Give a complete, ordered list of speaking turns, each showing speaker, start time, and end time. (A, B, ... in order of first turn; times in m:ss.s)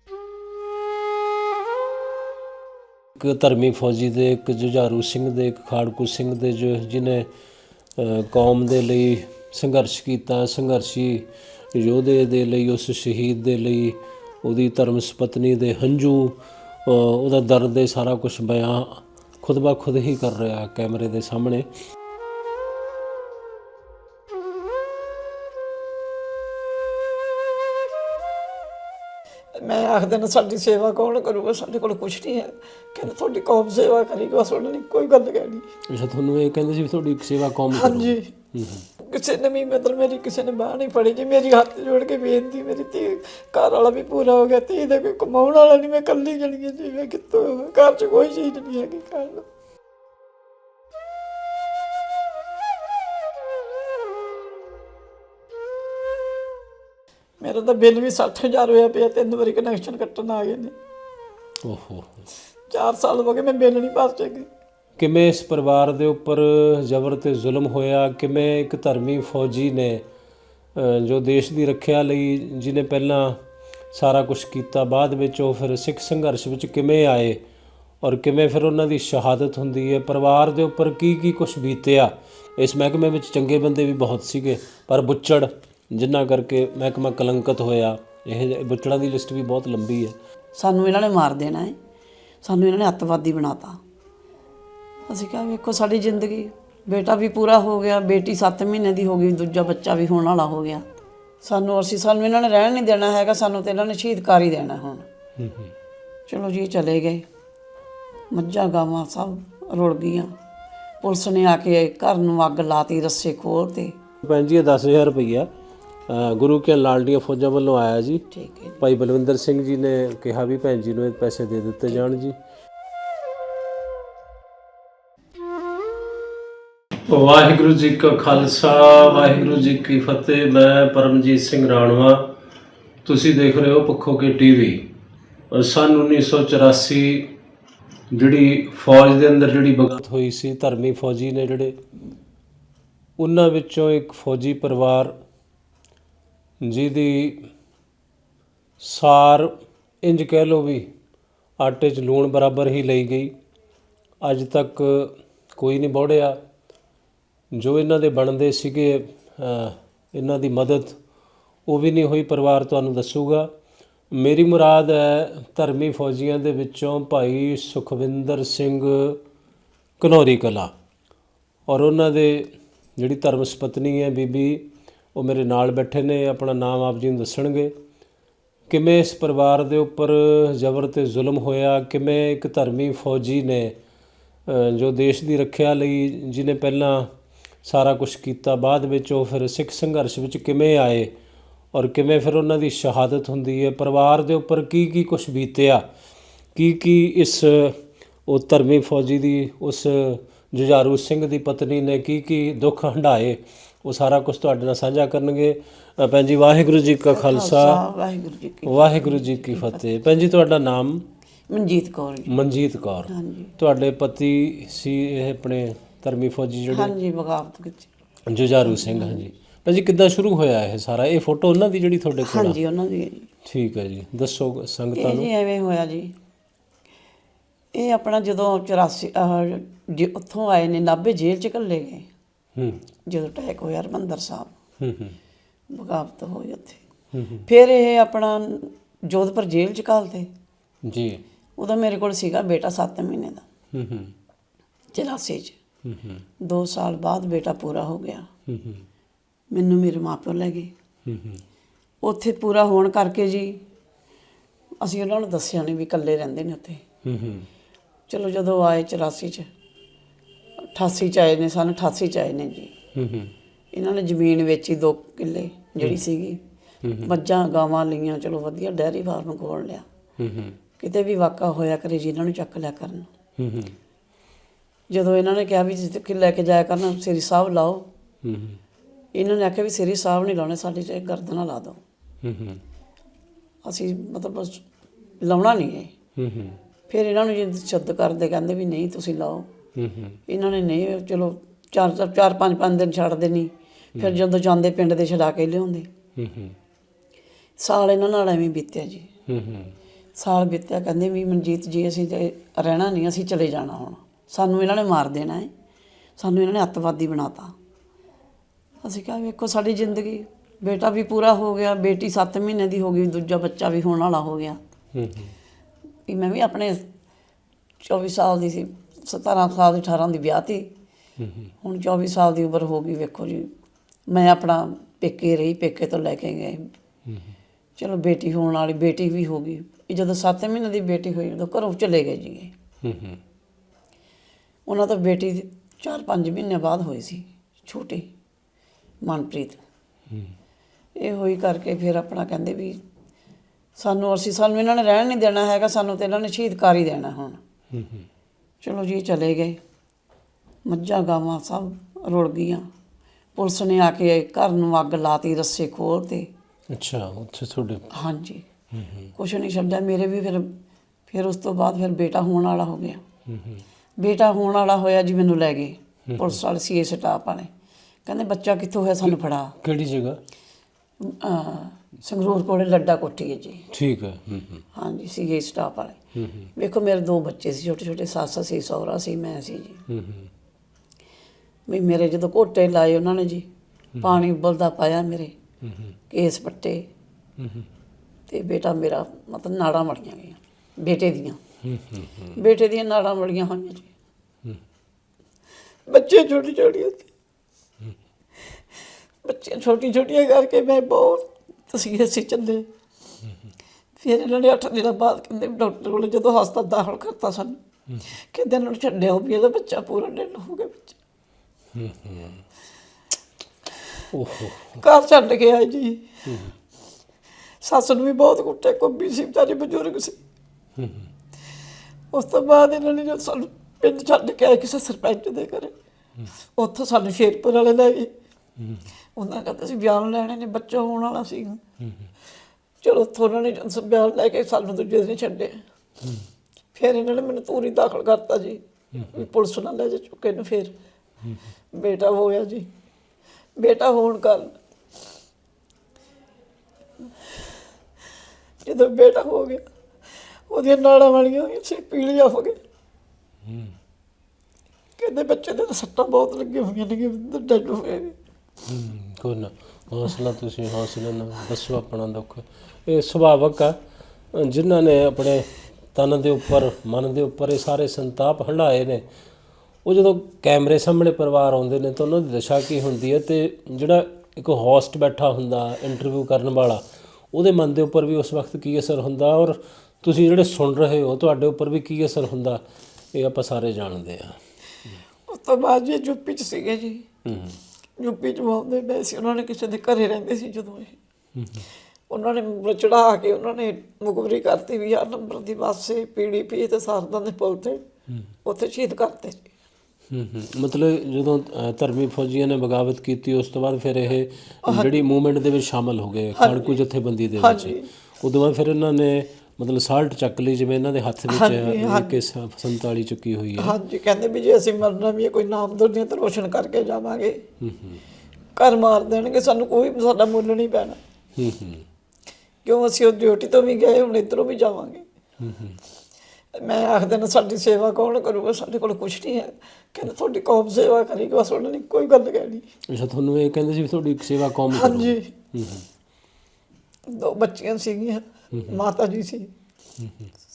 0:03.1-0:07.3 A
0:08.0-0:21.7 A
0:29.6-0:35.7 B
0:35.9-0:38.9 A
0:37.7-0:38.3 B
0:39.0-0:49.5 B
0:57.4-1:00.7 B
1:01.6-1:02.2 A
1:02.7-1:04.5 B
1:05.0-1:10.0 A
1:10.7-1:13.4 A
1:13.9-1:17.4 A
1:18.0-1:30.2 A
1:30.5-1:31.8 C
1:32.4-1:33.8 C
1:35.1-1:40.9 C
1:41.4-1:45.0 C
1:45.4-1:45.7 A
1:46.3-1:47.2 C
1:48.3-1:50.3 C
1:51.0-1:54.0 C
1:54.2-1:55.5 A
1:56.1-1:58.3 A
1:58.3-1:58.8 C
1:58.8-2:02.4 A
2:07.1-2:12.3 A
2:13.0-2:14.8 A
2:15.5-2:17.3 A
2:18.1-2:21.8 A
2:23.2-2:25.1 A
2:26.6-2:27.5 A
2:28.8-2:30.9 A
2:31.6-2:33.4 A
2:34.2-2:36.4 A
2:37.5-2:41.0 A
2:41.6-2:43.5 A
2:44.1-2:49.2 A
2:50.0-2:50.7 A
2:51.7-2:57.7 A
2:58.7-3:03.8 A
3:04.4-3:07.1 A
3:07.6-3:11.1 A
3:11.7-3:15.9 A
3:16.5-3:27.8 A
3:27.1-3:29.8 C
3:28.6-3:31.1 A
3:31.5-3:32.3 C
3:32.2-3:36.9 A
3:33.1-3:33.5 C
3:36.7-3:37.9 C
3:38.3-3:42.6 A
3:38.6-3:39.2 C
3:42.2-3:43.3 C
3:43.4-3:45.3 A
3:44.9-3:46.1 C
3:47.7-3:52.1 C
3:52.6-3:52.8 A
3:53.1-3:54.5 C
3:54.8-3:55.2 A
3:55.7-3:56.8 C
3:57.1-3:57.4 A
3:57.4-4:00.3 C
4:00.8-4:01.2 A
4:01.6-4:03.4 C
4:03.7-4:04.1 A
4:04.9-4:05.6 C
4:05.8-4:06.2 A
4:06.4-4:08.3 C
4:08.5-4:08.8 A
4:09.5-4:10.7 C
4:11.0-4:11.4 A
4:12.0-4:13.6 C
4:14.8-4:16.8 C
4:17.0-4:17.5 A
4:18.1-4:19.5 C
4:20.7-4:22.7 C
4:22.9-4:23.3 A
4:23.7-4:26.4 C
4:26.8-4:27.1 A
4:27.0-4:29.8 C
4:30.2-4:30.6 A
4:30.8-4:33.1 C
4:33.4-4:33.8 A
4:34.9-4:37.9 C
4:38.2-4:38.6 A
4:39.1-4:41.8 C
4:42.2-4:42.6 A
4:43.6-4:44.6 C
4:45.2-4:45.9 C
4:46.2-4:46.6 A
4:46.9-4:49.5 C
4:49.8-4:50.2 A
4:50.3-4:55.9 C
4:53.9-4:54.2 A
4:56.2-4:56.6 A
4:57.6-4:59.1 C
4:59.3-4:59.7 A
5:00.2-5:05.5 C
5:06.2-5:07.5 C
5:08.8-5:14.6 C
5:14.9-5:15.3 A
5:16.1-5:16.8 C
5:17.8-5:20.7 C
5:21.2-5:21.5 A
5:21.6-5:23.5 C
5:24.1-5:26.7 C
5:27.8-5:32.5 C
5:32.8-5:33.2 A
5:34.6-5:38.1 C
5:39.0-5:39.6 C
5:41.0-5:42.8 C
5:43.8-5:47.4 C
5:47.7-5:48.1 A
5:48.6-5:49.6 C
5:50.6-5:52.7 C
5:53.4-5:56.3 C
5:56.7-5:57.9 A
5:57.9-5:58.4 C
5:58.7-5:59.1 A
5:59.1-6:03.0 C
6:03.3-6:03.6 A
6:04.0-6:07.5 C
6:06.1-6:06.4 A
6:08.0-6:09.5 C
6:09.0-6:10.2 A
6:11.0-6:13.7 C
6:13.7-6:14.6 A
6:14.7-6:16.0 C
6:16.1-6:16.5 A
6:16.6-6:19.8 C
6:19.9-6:20.3 A
6:21.7-6:23.5 C
6:23.9-6:24.2 A
6:24.0-6:25.3 C
6:25.6-6:25.9 A
6:26.1-6:26.9 C
6:27.4-6:27.7 A
6:28.3-6:31.4 C
6:31.6-6:32.4 A
6:32.3-6:33.9 C
6:35.9-6:37.1 B
6:39.2-6:42.7 B
6:44.0-6:47.6 B
6:48.3-6:50.9 B
6:51.7-6:52.4 A
6:54.1-6:54.8 A
6:54.8-6:56.0 B
6:56.2-6:56.5 A
6:57.6-7:00.2 B
7:00.8-7:01.1 A
7:02.1-7:05.7 B
7:06.6-7:08.1 B
7:08.6-7:08.8 A
7:09.2-7:11.6 B
7:11.8-7:12.1 A
7:12.8-7:15.6 B
7:16.7-7:20.7 B
7:18.9-7:19.2 A
7:21.7-7:22.7 B
7:23.6-7:24.5 B
7:28.6-7:29.6 B
7:30.5-7:32.6 B
7:33.4-7:33.8 A
7:35.0-7:38.2 B
7:38.6-7:43.8 A
7:44.3-7:49.0 A
7:49.8-8:05.0 A
8:05.3-8:07.0 B
8:07.2-8:07.6 A
8:08.0-8:11.0 B
8:11.3-8:11.7 A
8:12.1-8:17.8 B
8:18.4-8:19.5 B
8:20.1-8:33.8 A
8:24.6-8:24.9 B
8:26.4-8:26.8 B
8:27.4-8:27.9 B
8:31.3-8:32.2 B
8:33.6-8:37.4 B
8:37.6-8:38.0 A
8:38.6-8:41.0 B
8:41.4-8:41.8 A
8:42.6-8:45.0 B
8:45.4-8:45.8 A
8:46.5-8:52.6 B
8:52.9-8:55.9 A
8:54.7-8:55.3 B
8:57.1-8:59.5 B
8:58.5-8:58.8 A
9:00.0-9:00.3 A